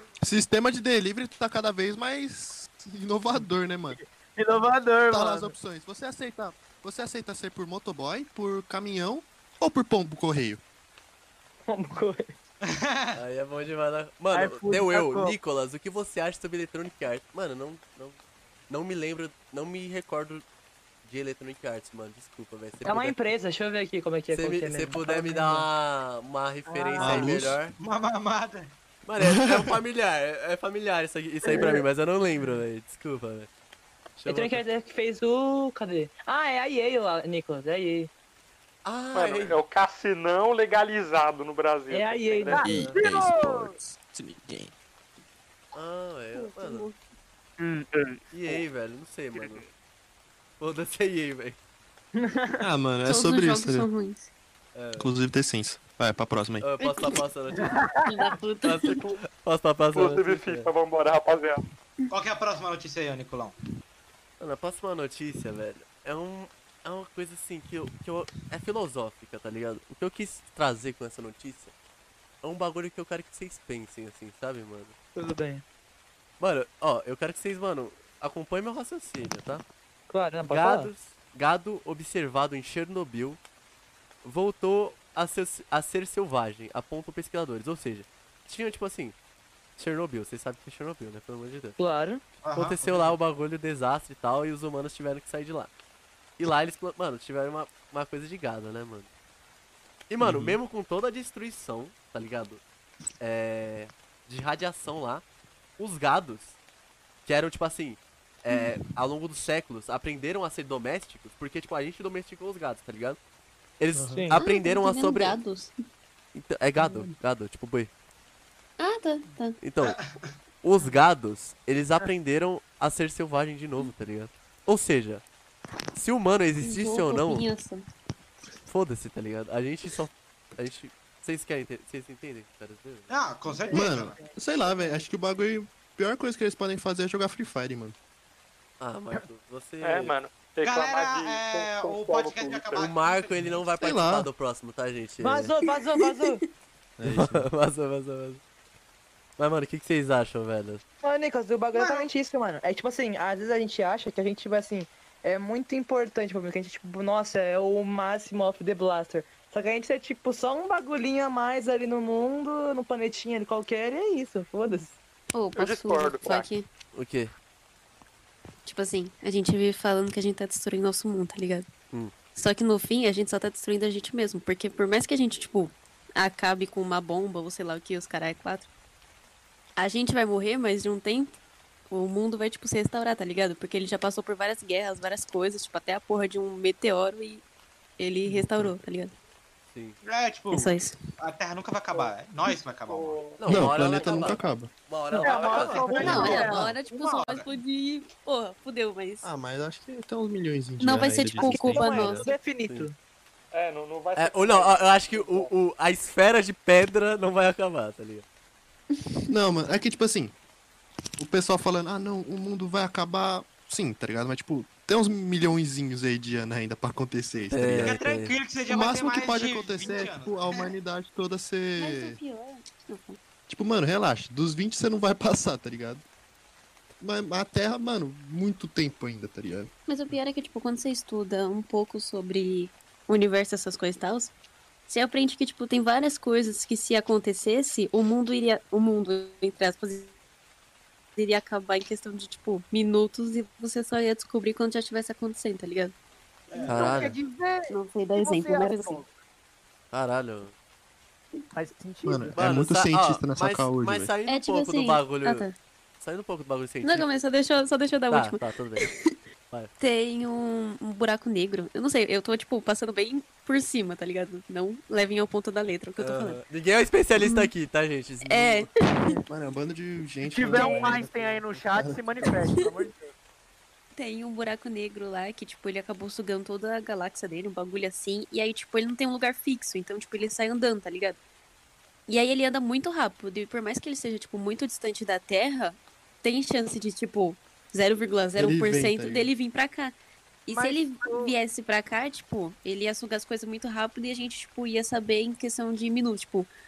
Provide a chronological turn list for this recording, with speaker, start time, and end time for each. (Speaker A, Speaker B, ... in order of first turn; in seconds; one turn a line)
Speaker A: 0.2-4.0
Speaker B: 3.9-5.5
Speaker A: 5.1-10.6
Speaker C: 11.7-12.3
Speaker D: 12.6-13.2
Speaker E: 13.1-18.2
Speaker B: 14.3-15.4
Speaker E: 18.7-20.4
Speaker E: 21.0-23.1
Speaker C: 22.8-25.7
Speaker E: 24.3-27.8
Speaker B: 26.7-27.3
Speaker A: 27.0-27.6
Speaker D: 27.8-28.7
Speaker E: 29.1-33.5
Speaker A: 29.2-29.8
Speaker E: 34.2-34.6
Speaker C: 34.3-38.1
Speaker E: 38.9-39.6
Speaker F: 39.1-42.7
Speaker C: 41.9-42.7
Speaker B: 42.5-43.8
Speaker A: 42.6-44.7
Speaker E: 42.7-43.0
Speaker E: 45.7-46.9
Speaker G: 46.3-47.0
Speaker F: 47.6-48.1
Speaker E: 48.3-49.7
Speaker F: 49.4-49.6
Speaker E: 50.6-51.6
Speaker C: 52.1-52.6
Speaker A: 52.6-53.9
Speaker G: 53.0-54.2
Speaker E: 54.7-55.1
Speaker A: 55.0-56.7
Speaker E: 56.6-57.7
Speaker G: 56.8-57.2
Speaker B: 57.6-58.1
Speaker G: 58.0-59.1
Speaker E: 58.6-60.7
Speaker F: 59.9-61.6
Speaker D: 62.1-63.6
Speaker E: 64.4-71.7
Speaker E: 72.4-74.9
Speaker C: 75.2-75.6
Speaker E: 76.4-79.6
Speaker C: 80.1-80.9
Speaker E: 80.5-83.4
Speaker E: 84.2-89.1
Speaker E: 89.8-91.8
Speaker C: 91.8-92.2
Speaker D: 92.4-93.2
Speaker E: 92.5-95.7
Speaker E: 96.4-99.1
Speaker E: 100.1-102.6
Speaker A: 100.2-100.6
Speaker E: 103.2-105.2
Speaker E: 105.8-106.5
Speaker E: 107.2-113.2
Speaker E: 113.8-115.4
Speaker B: 113.9-114.2
Speaker G: 114.4-115.8
Speaker E: 116.3-117.9
Speaker G: 116.8-117.1
Speaker G: 118.8-119.6
Speaker E: 119.6-120.0
Speaker D: 119.8-120.3
Speaker E: 120.6-125.2
Speaker E: 125.9-127.4
Speaker G: 126.6-127.8
Speaker E: 128.7-133.1
Speaker D: 133.1-134.2
Speaker B: 133.5-135.0
Speaker A: 133.7-137.9
Speaker E: 138.8-140.1
Speaker F: 139.8-142.9
Speaker D: 140.6-143.7
Speaker E: 142.8-145.5
Speaker A: 143.8-144.3
Speaker C: 145.2-146.4
Speaker G: 145.9-146.4
Speaker A: 147.0-147.5
Speaker E: 147.1-148.4
Speaker E: 149.4-150.8
Speaker C: 151.0-164.9
Speaker D: 151.7-152.1
Speaker G: 165.3-166.7
Speaker F: 165.6-166.5
Speaker E: 166.9-167.3
Speaker G: 168.6-171.7
Speaker G: 172.3-178.7
Speaker G: 179.8-181.3
Speaker G: 181.9-187.4
Speaker G: 188.0-189.1
Speaker A: 188.2-188.7
Speaker D: 190.0-193.2
Speaker G: 190.5-190.9
Speaker F: 192.9-194.4
Speaker E: 193.4-195.9
Speaker A: 193.5-194.7
Speaker B: 195.1-196.5
Speaker F: 195.2-196.0
Speaker D: 195.5-197.5
Speaker G: 195.9-199.3
Speaker A: 196.0-196.7
Speaker A: 199.2-202.2
Speaker G: 200.8-202.3
Speaker C: 201.4-202.9
Speaker E: 202.2-202.9
Speaker F: 203.5-205.5
Speaker E: 204.2-208.2
Speaker A: 209.3-210.3
Speaker A: 211.2-218.0
Speaker E: 217.5-218.3
Speaker D: 217.8-220.7
Speaker A: 218.7-222.2
Speaker G: 221.8-223.2
Speaker A: 223.5-226.0
Speaker A: 227.0-229.7
Speaker G: 229.9-234.3
Speaker G: 234.9-240.1
Speaker G: 241.2-245.9
Speaker D: 246.5-247.1
Speaker B: 246.6-249.1
Speaker E: 246.7-247.1
Speaker G: 247.7-249.0
Speaker E: 249.9-250.5
Speaker B: 251.6-252.4
Speaker A: 252.1-254.1
Speaker E: 252.4-255.5
Speaker G: 254.3-255.6
Speaker E: 256.0-257.1
Speaker G: 256.8-259.1
Speaker E: 258.1-258.9
Speaker G: 259.8-266.4
Speaker E: 266.0-268.7
Speaker G: 267.2-267.5
Speaker G: 268.2-269.2
Speaker A: 269.3-272.1
Speaker B: 270.2-273.1
Speaker G: 270.5-271.0
Speaker G: 273.9-281.2
Speaker G: 282.1-289.9
Speaker A: 288.4-289.3
Speaker G: 290.4-296.5
Speaker B: 290.5-291.3